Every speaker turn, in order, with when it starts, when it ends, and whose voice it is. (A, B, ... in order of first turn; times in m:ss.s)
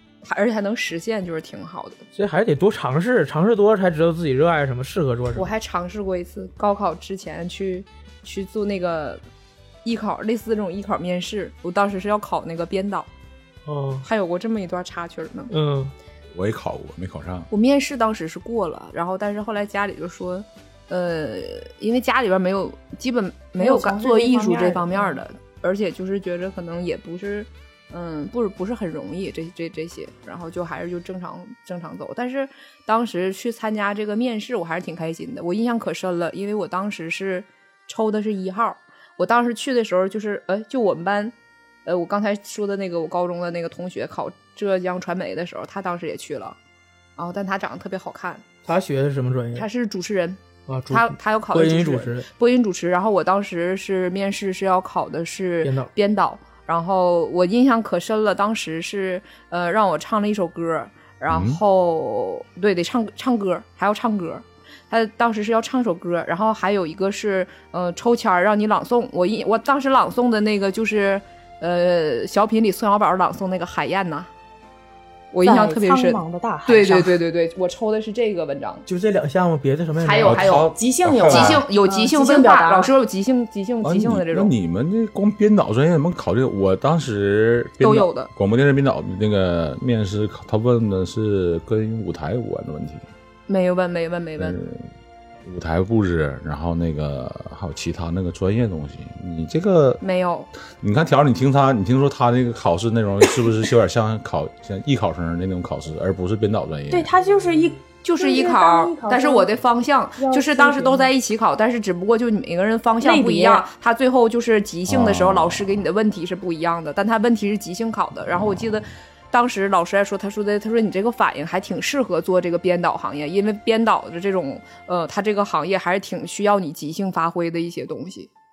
0:00.3-0:02.0 A
0:02.2-0:05.5 B
0:05.4-0:09.2 A
0:09.8-0:13.1 A
0:13.7-0:14.1 B
0:14.0-0:15.5 A
0:15.5-0:15.9 B
0:16.4-0:17.5 C
0:17.5-0:41.3 A
0:23.6-0:25.2 D
0:41.8-0:46.6 A
0:47.2-0:48.4 A
0:48.7-0:49.7 B
0:49.6-0:50.4 A
0:50.7-0:52.3 B
0:50.9-1:14.3 A
0:55.6-0:55.9 B
1:01.3-1:01.6 C
1:15.3-1:18.8 A
1:15.4-1:17.2 D
1:18.9-1:20.4 B
1:20.0-1:20.7 A
1:20.2-1:21.6 C
1:20.8-1:22.9 D
1:21.2-1:24.5 A
1:23.8-1:33.1 C
1:27.8-1:28.3 A
1:33.5-1:34.6 A
1:34.4-1:34.9 C
1:35.4-1:40.0 C
1:40.0-1:40.5 A
1:40.8-1:47.1 C
1:46.9-1:49.5 D
1:48.0-2:08.3 A
1:50.2-1:51.1 D
1:53.0-1:53.6 D
1:54.9-1:55.8 C